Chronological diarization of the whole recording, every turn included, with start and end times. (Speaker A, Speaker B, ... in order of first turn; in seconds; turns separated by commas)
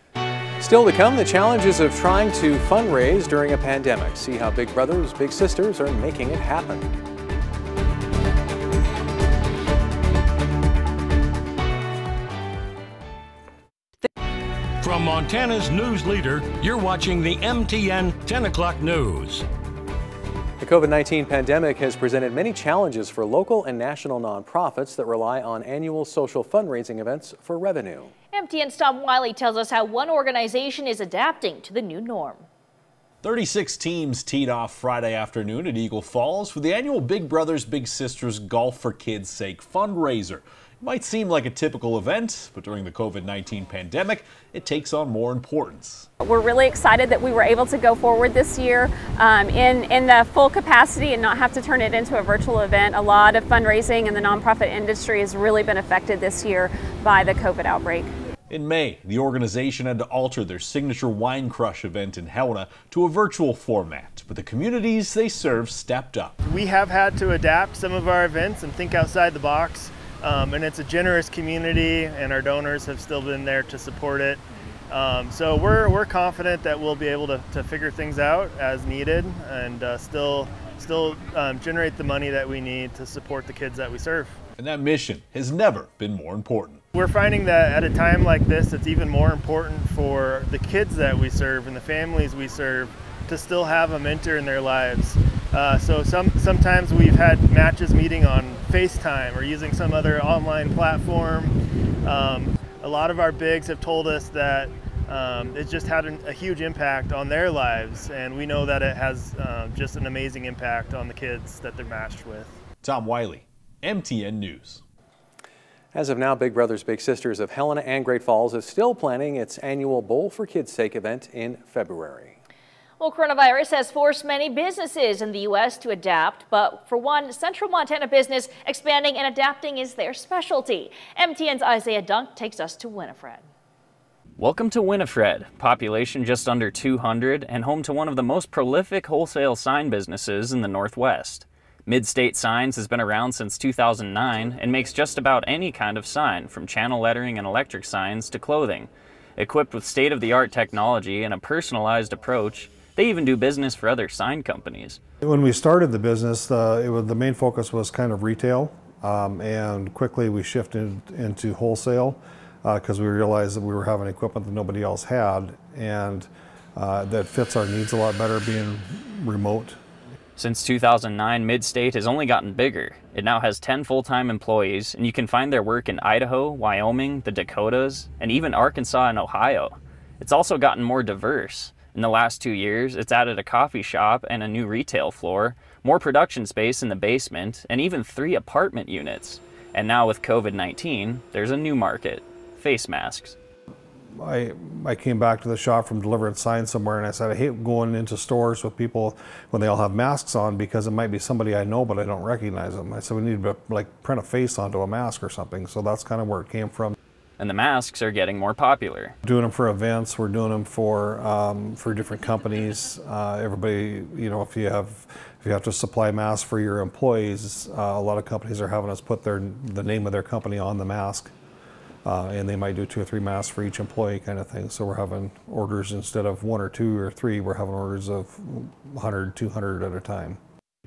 Speaker A: 0.6-6.9, Speaker B: 14.8-19.4, Speaker A: 20.6-28.1, Speaker C: 28.3-32.5, Speaker D: 33.2-46.1, Speaker E: 46.2-58.1, Speaker D: 58.5-66.4, Speaker F: 66.4-84.4, Speaker D: 84.6-86.8, Speaker F: 86.9-112.6, Speaker D: 112.8-114.8, Speaker A: 115.9-122.4, Speaker C: 123.0-133.5, Speaker G: 134.4-155.0, Speaker H: 155.2-169.8, Speaker G: 170.4-193.4, Speaker H: 194.1-206.9, Speaker G: 207.4-209.2, Speaker H: 209.2-221.3, Speaker H: 222.1-230.4